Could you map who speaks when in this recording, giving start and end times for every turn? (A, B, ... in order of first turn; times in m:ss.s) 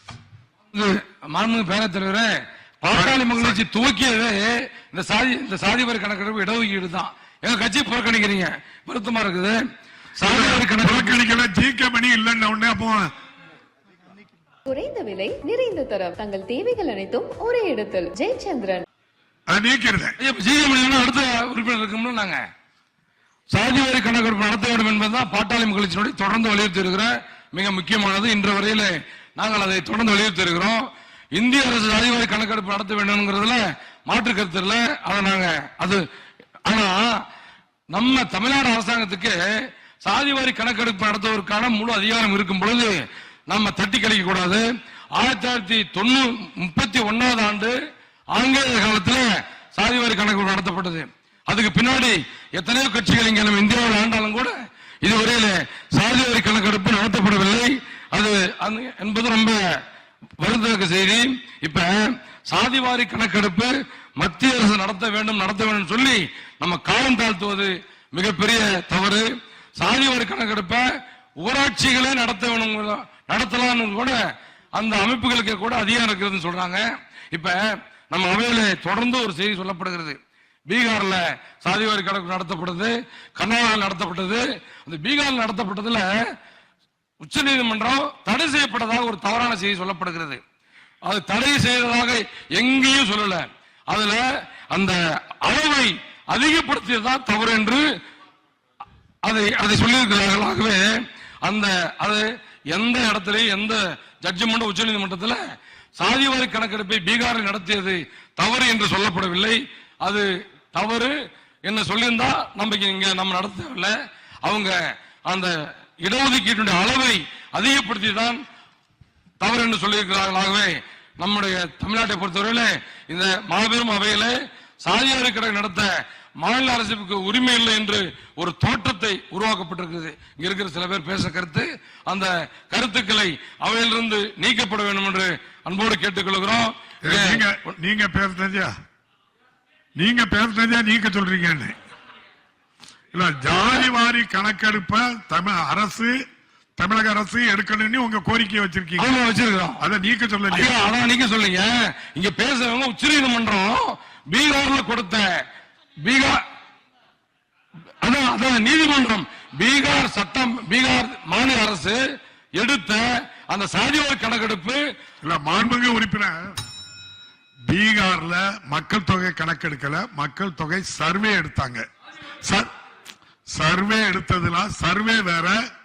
0:00.7-0:02.3 A
0:02.8-0:09.6 A
0:02.9-0:03.6 B
0:10.2-0:11.2 A
0:10.2-0:13.1 B
0:14.7-0:18.8 C
0:19.5-0:20.1 B
0:20.2-0:22.4 A
0:23.5-0:30.8 A
0:31.3-0:36.0 A
0:36.6-0:37.0 A
0:37.9-0:39.4 A
0:40.0-0:44.6 A
0:45.1-0:47.7 A
0:48.3-0:59.6 A
1:00.4-1:10.8 A
1:11.4-1:14.2 A
1:14.7-1:26.1 A
1:27.2-1:30.4 A
1:31.0-1:37.8 A
1:39.2-1:40.8 A
1:41.4-1:45.4 A
1:46.0-1:51.1 A
1:51.6-1:53.9 A
1:54.4-1:54.7 A
1:55.2-1:58.4 A
1:59.4-2:05.9 A
2:06.4-2:17.4 A
2:17.0-2:18.7 B
2:20.0-2:21.7 B
2:23.1-2:26.2 B
2:26.8-2:29.1 B
2:29.0-2:29.8 A
2:29.8-2:30.8 B
2:30.5-2:35.2 A
2:36.0-2:36.4 A
2:38.0-2:42.0 A
2:42.6-2:44.8 A
2:45.2-2:46.5 B
2:47.7-2:51.8 B
2:53.5-2:55.6 B